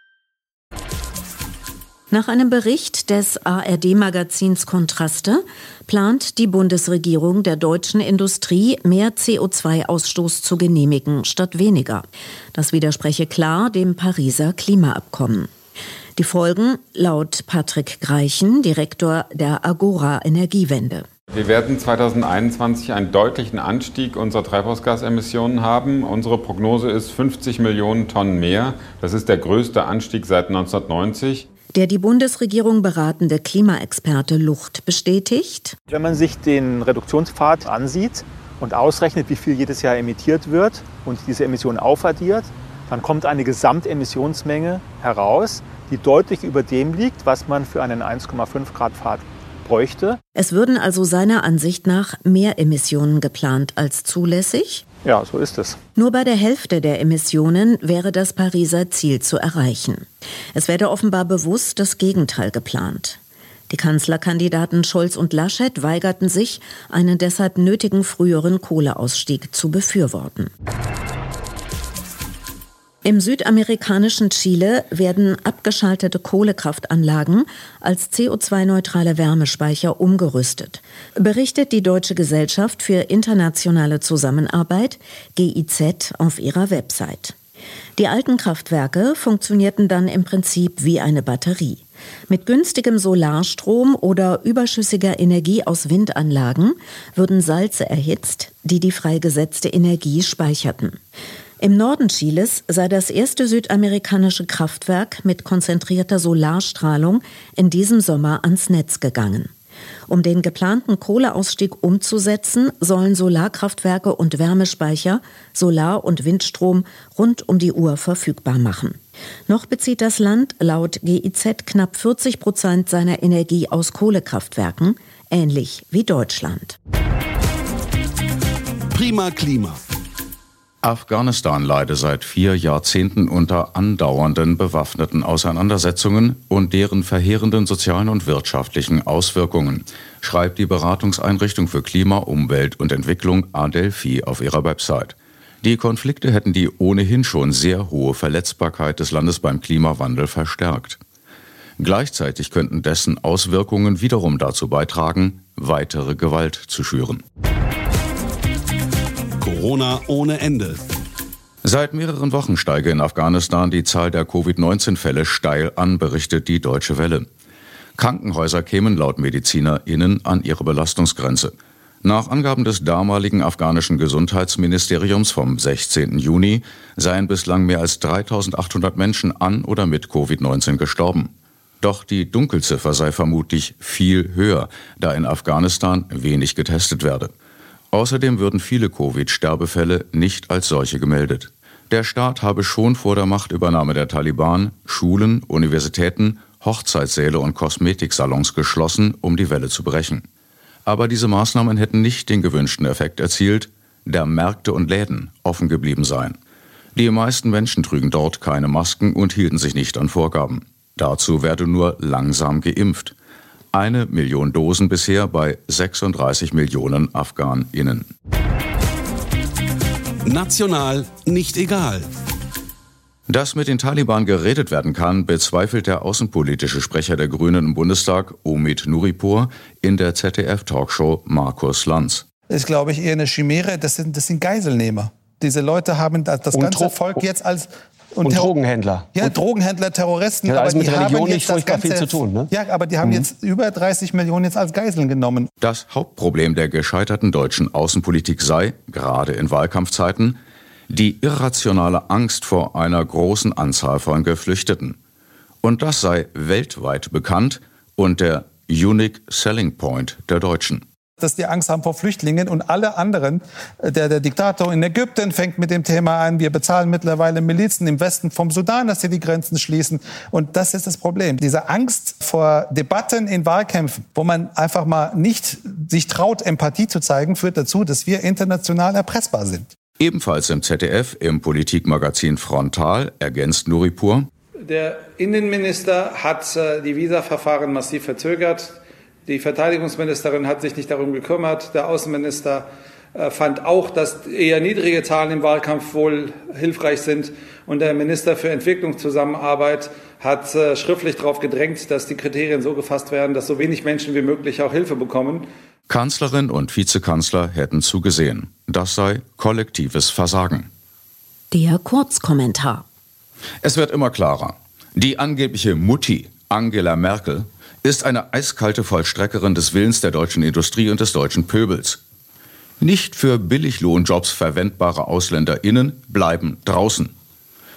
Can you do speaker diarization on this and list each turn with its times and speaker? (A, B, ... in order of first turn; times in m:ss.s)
0:02.1-0:15.5 A
0:16.2-0:21.1 A
0:21.3-0:31.5 B
0:31.7-0:35.8 A
0:35.9-0:50.2 C
0:50.4-0:54.8 A
0:55.0-0:55.8 C
0:56.0-1:10.5 A
1:13.0-1:27.4 A
1:28.0-1:41.0 A
1:41.6-1:49.5 A
1:50.1-2:06.8 A
2:08.9-2:09.8 D
2:10.8-2:31.0 E
2:31.8-2:37.2 E
2:39.4-2:40.8 D
2:41.6-2:47.3 E
2:48.0-3:07.3 E
3:07.9-3:20.2 E
3:20.9-3:26.4 E
3:27.0-3:33.2 E
3:33.7-3:38.1 E
3:40.3-3:42.1 D
3:43.3-3:52.2 E
3:52.5-3:58.5 F
3:56.5-3:57.2 G
3:58.2-3:59.4 G
3:59.1-4:05.5 F
4:00.5-4:02.5 G
4:03.0-4:03.3 G
4:05.6-4:10.4 E
4:10.9-4:15.0 E
4:15.6-4:20.8 E
4:21.2-4:39.7 F
4:40.0-4:44.3 E
4:44.6-5:05.5 F
5:05.9-5:10.7 E
5:11.5-5:12.9 A
5:13.6-5:22.0 E
5:22.8-5:27.1 E